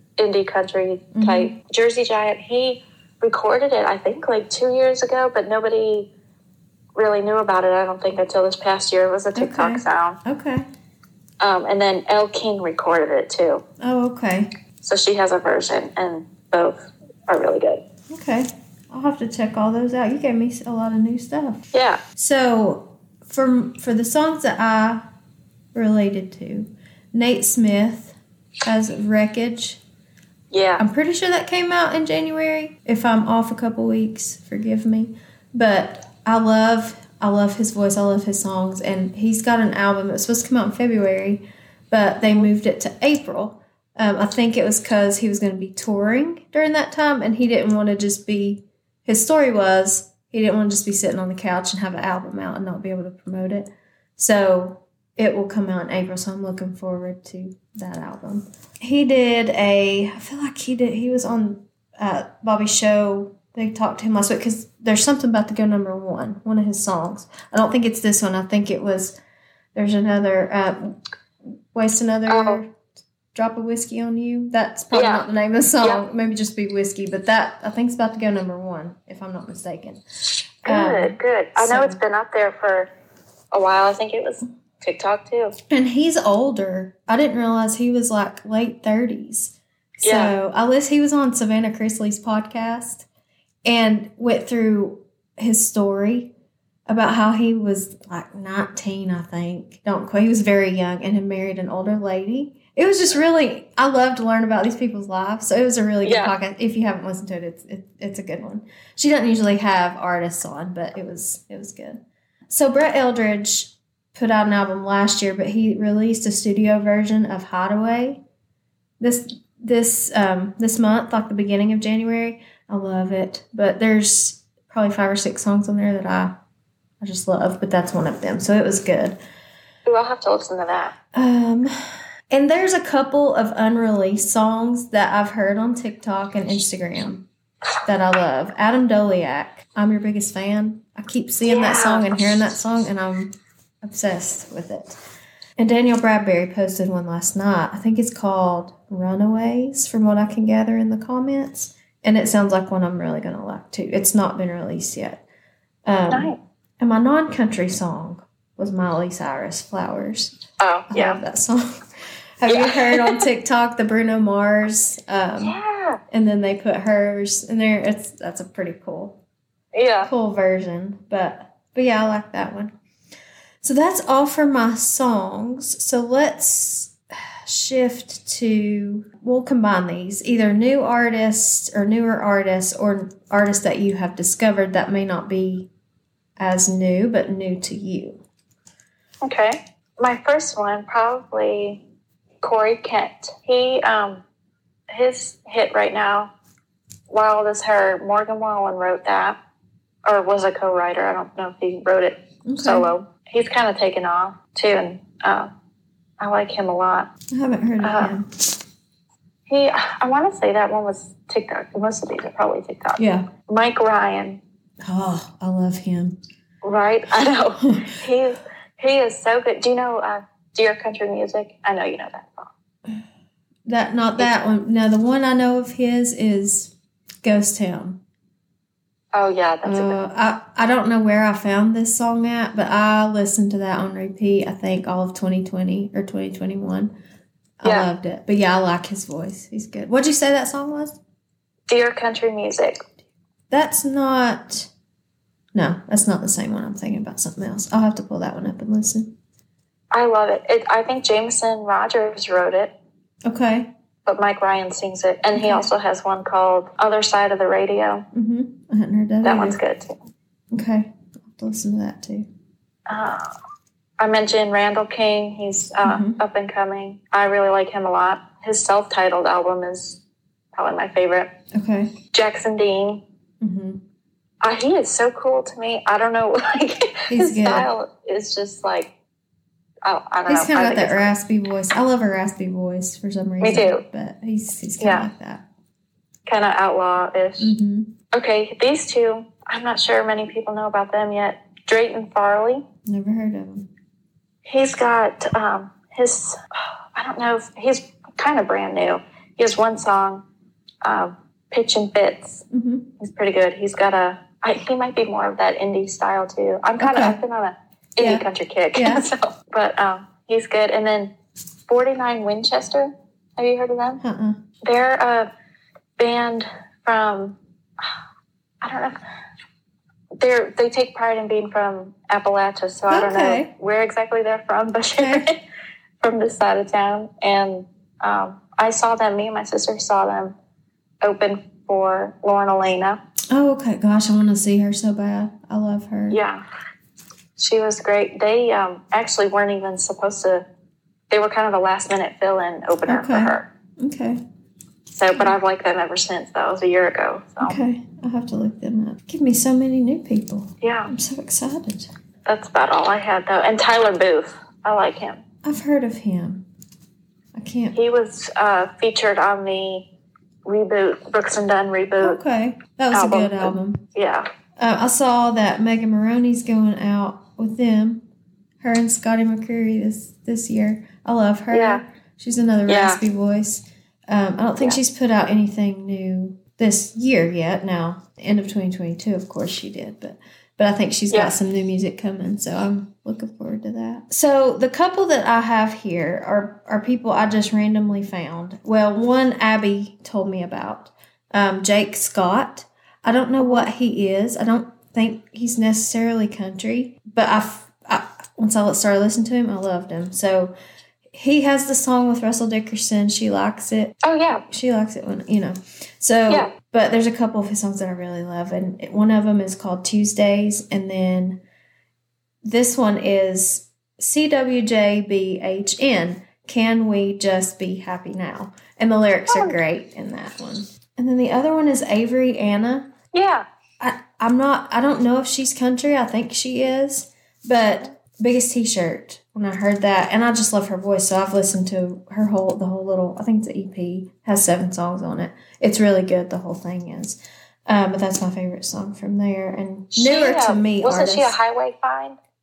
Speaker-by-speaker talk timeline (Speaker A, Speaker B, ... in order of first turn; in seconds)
Speaker A: 0.2-6.1, 6.9-10.2, 11.4-13.6, 14.8-17.8, 21.7-22.0, 30.5-30.8, 72.3-72.6, 74.9-75.2, 80.7-82.9, 83.5-85.5, 90.0-90.3, 106.0-106.3, 129.8-130.9, 141.4-142.1, 156.1-156.4, 160.6-161.2, 162.5-163.2, 165.4-166.0, 169.7-170.1, 189.2-191.8, 192.4-194.2, 194.9-196.3, 197.1-199.4, 200.1-205.5, 206.2-207.1, 207.8-208.1, 209.5-214.4, 216.6-222.5, 229.1-230.0, 237.6-237.9, 241.7-242.8, 249.9-252.7, 254.0-258.0, 259.2-260.0, 262.9-263.3, 264.0-270.0, 270.5-271.3, 272.1-273.0, 274.4-278.9, 279.8-281.1, 283.4-283.8, 284.8-285.1, 286.3-287.5, 288.1-292.6, 294.4-296.4, 296.9-300.2, 300.8-302.4, 303.0-311.1, 311.7-314.0, 314.6-315.3, 316.0-317.4, 318.6-319.0, 320.2-325.3, 326.0-330.3, 331.0-333.0, 336.1-336.4, 337.4-340.4, 341.1-343.4, 344.9-347.6, 350.6-350.9, 352.2-355.2, 357.7-359.9, 360.4-362.2, 362.9-364.3, 371.5-371.8, 372.7-373.0, 393.4-393.7, 404.0-404.4, 419.3-419.6, 423.1-423.4, 439.9-442.2
Speaker B: 1.1-1.5, 9.3-10.7, 13.8-14.5, 18.1-21.6, 22.1-25.0, 25.7-29.8, 30.8-69.2, 69.7-71.0, 71.7-72.7, 73.3-80.0, 80.6-82.0, 85.7-93.0, 93.6-96.3, 96.9-118.2, 119.0-126.4, 127.0-129.2, 131.1-131.7, 132.3-137.2, 137.8-145.0, 145.6-155.2, 155.8-160.4, 160.9-161.6, 162.4-165.6, 166.1-169.2, 170.0-172.7, 173.6-185.7, 186.4-188.2, 202.4-202.9, 207.3-208.2, 213.0-213.3, 214.8-216.2, 217.6-218.0, 223.7-228.0, 229.6-236.9, 237.6-241.0, 243.5-244.7, 245.5-249.1, 253.2-253.7, 255.3-255.7, 258.1-259.6, 260.5-262.3, 265.8-266.2, 271.5-271.9, 273.4-273.8, 277.1-277.7, 280.3-285.4, 287.4-287.9, 292.9-293.7, 302.5-302.9, 306.8-307.2, 308.0-309.1, 314.0-314.4, 322.9-323.5, 325.0-325.2, 333.3-336.2, 342.9-344.2, 347.4-351.9, 355.4-356.4, 357.3-357.8, 362.0-363.8, 364.6-368.0, 368.6-400.5, 401.1-403.9, 404.5-411.4, 412.4-422.9, 423.8-441.4